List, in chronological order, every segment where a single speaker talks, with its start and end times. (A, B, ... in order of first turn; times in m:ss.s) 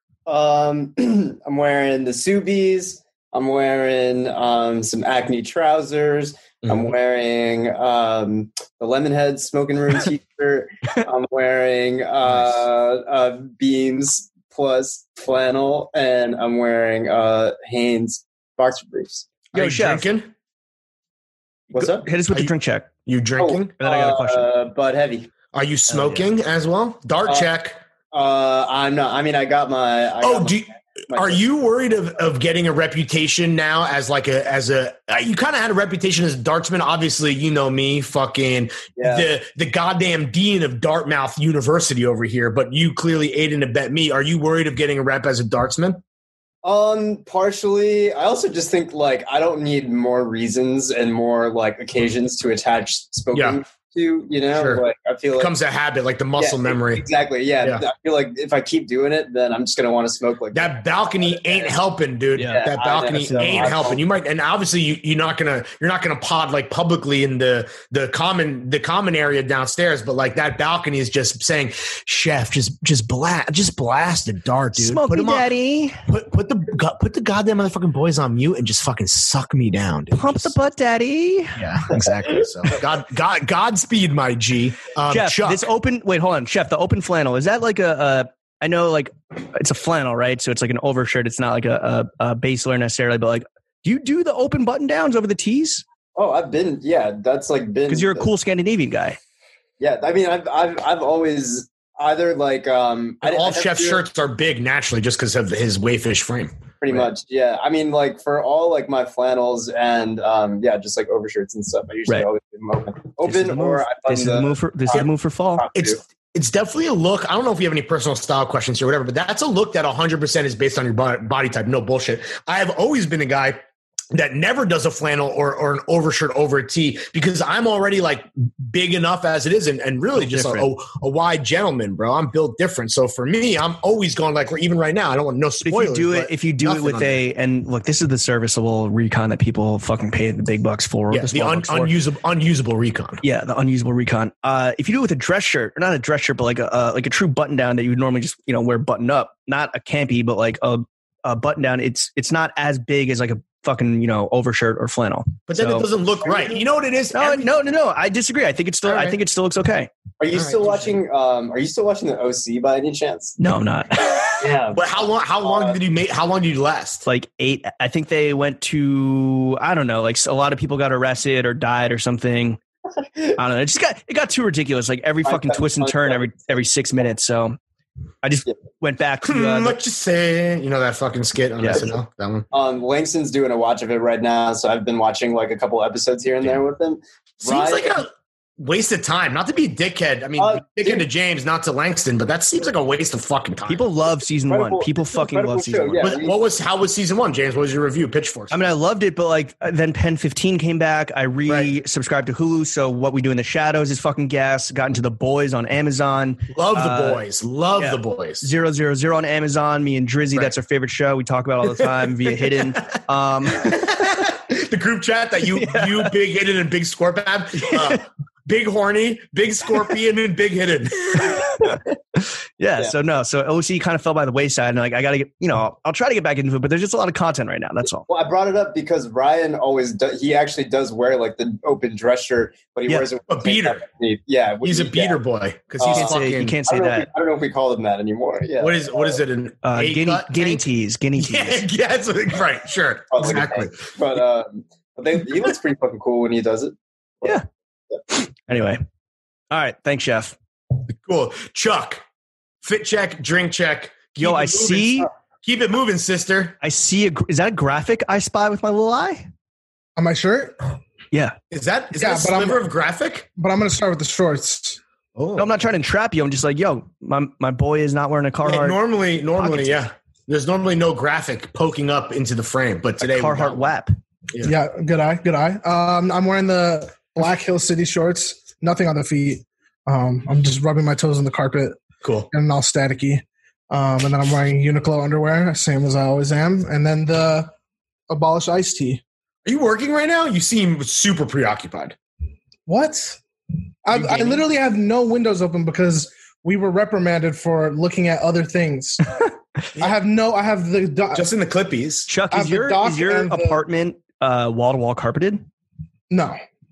0:00.2-0:19.3 A
0:19.5-0:20.3 B
0:19.5-0:20.1 C
0:21.7-0:22.9 C
0:21.7-0:22.1 A
0:23.0-0:23.8 B
0:23.4-0:25.3 A
0:23.8-0:24.5 C
0:25.5-0:27.8 B
0:25.9-0:26.3 A
0:28.1-0:31.4 A
0:30.2-0:46.0 B
0:39.0-0:39.3 A
0:46.6-0:55.5 A
0:53.3-0:53.6 B
0:54.5-0:54.8 B
0:55.4-0:57.0 B
0:56.4-1:01.8 A
1:00.5-1:15.5 B
1:02.4-1:03.9 C
1:02.4-1:04.0 A
1:14.7-1:16.0 C
1:16.1-1:20.6 B
1:20.1-1:21.6 C
1:21.6-1:25.7 B
1:25.1-1:35.8 C
1:36.1-1:38.3 A
1:37.9-1:39.2 C
1:39.8-1:44.0 A
1:43.2-1:47.1 B
1:46.8-1:56.0 A
1:53.2-1:55.6 C
1:55.7-2:03.6 B
2:04.1-2:17.2 B
2:10.1-2:10.7 C
2:15.6-2:22.0 C
2:21.1-2:23.2 B
2:23.2-2:35.9 C
2:35.5-2:37.5 B
2:36.2-2:36.6 A
2:37.1-2:39.9 C
2:38.8-2:39.2 B
2:40.2-2:43.4 A
2:40.3-2:40.8 B
2:43.4-2:44.4 C
2:44.4-2:45.8 A
2:44.7-2:47.0 B
2:47.0-2:52.6 C
2:53.4-2:57.6 C
2:55.2-2:56.5 A
2:58.2-2:59.8 C
2:59.2-3:02.5 B
3:01.6-3:01.9 C
3:02.5-3:08.0 A
3:07.4-3:13.8 B
3:10.4-3:11.0 A
3:13.7-3:16.1 C
3:14.5-3:16.4 A
3:16.0-3:18.7 B
3:18.5-3:27.2 C
3:21.4-3:21.7 B
3:26.5-3:28.5 B
3:27.8-3:33.9 C
3:31.8-3:32.9 B
3:33.5-3:41.5 B
3:35.5-3:36.1 C
3:37.5-3:38.0 C
3:41.2-3:48.0 C
3:48.0-3:55.2 A
3:53.3-3:53.8 B
3:54.6-3:56.6 B
3:55.8-3:59.2 A
3:55.9-3:57.1 C
3:58.6-4:03.9 B
3:59.6-4:01.6 C
4:03.1-4:07.3 A
4:08.1-4:08.8 C
4:09.5-4:10.3 C
4:10.9-4:12.0 B
4:12.6-4:16.6 B
4:14.2-4:15.1 C
4:16.6-4:19.2 C
4:20.0-4:20.6 D
4:21.5-4:23.3 B
4:22.0-4:22.6 D
4:23.4-4:24.8 D
4:25.2-4:25.6 B
4:25.4-4:28.8 C
4:28.4-4:33.7 B
4:29.4-4:29.8 C
4:33.0-4:33.9 C
4:34.4-4:41.8 D
4:42.0-4:42.3 B
4:42.3-4:47.5 D
4:48.1-4:49.0 D
4:49.4-4:51.9 B
4:52.7-4:53.2 D
4:53.8-4:59.2 D
4:53.9-4:54.4 C
4:59.8-5:01.3 D
5:01.1-5:02.1 B
5:02.1-5:05.4 C
5:02.3-5:03.6 D
5:06.1-5:06.3 D